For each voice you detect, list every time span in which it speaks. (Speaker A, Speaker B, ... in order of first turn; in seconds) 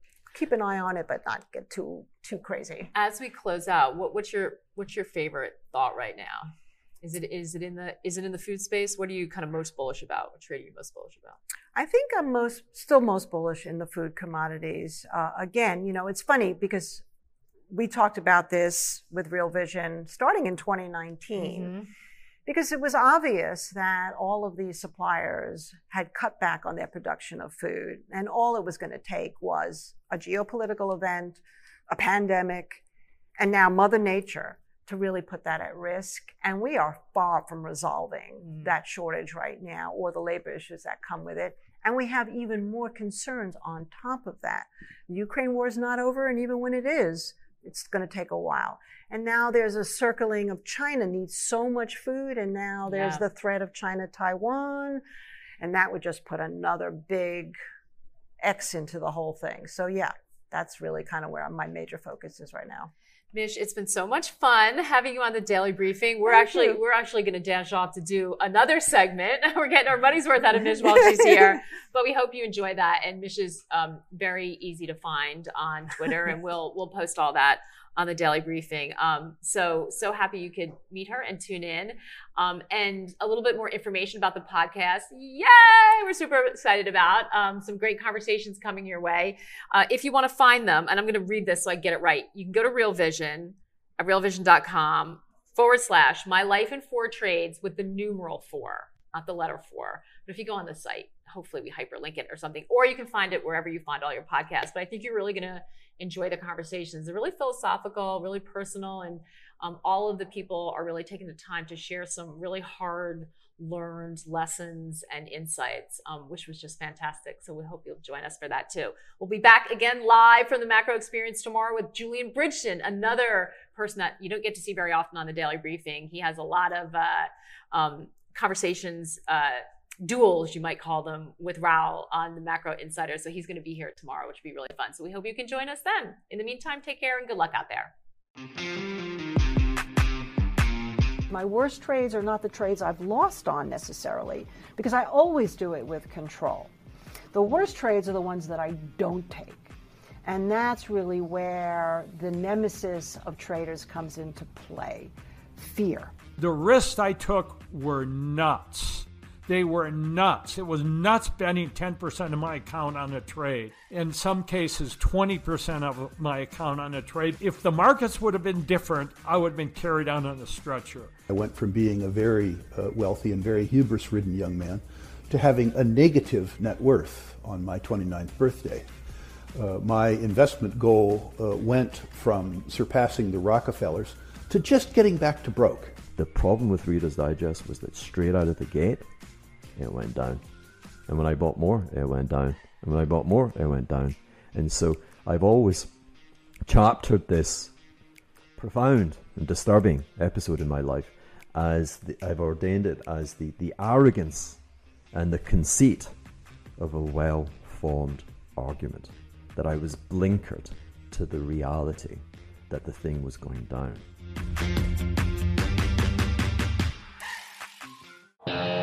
Speaker A: 0.3-2.9, 11.7-17.0, 17.7-21.7, 22.5-32.8, 33.4-55.0, 55.6-57.6, 58.4-62.9, 66.3-66.8, 70.8-71.5, 141.3-146.7, 147.3-156.1
Speaker B: 2.9-6.5, 7.0-11.4, 21.4-21.9, 38.5-38.7, 52.9-53.2, 63.3-137.9
Speaker C: 156.4-171.1
Speaker D: 171.3-178.9, 179.5-186.0
Speaker E: 186.2-196.0, 196.7-197.8, 198.6-206.2, 206.8-214.1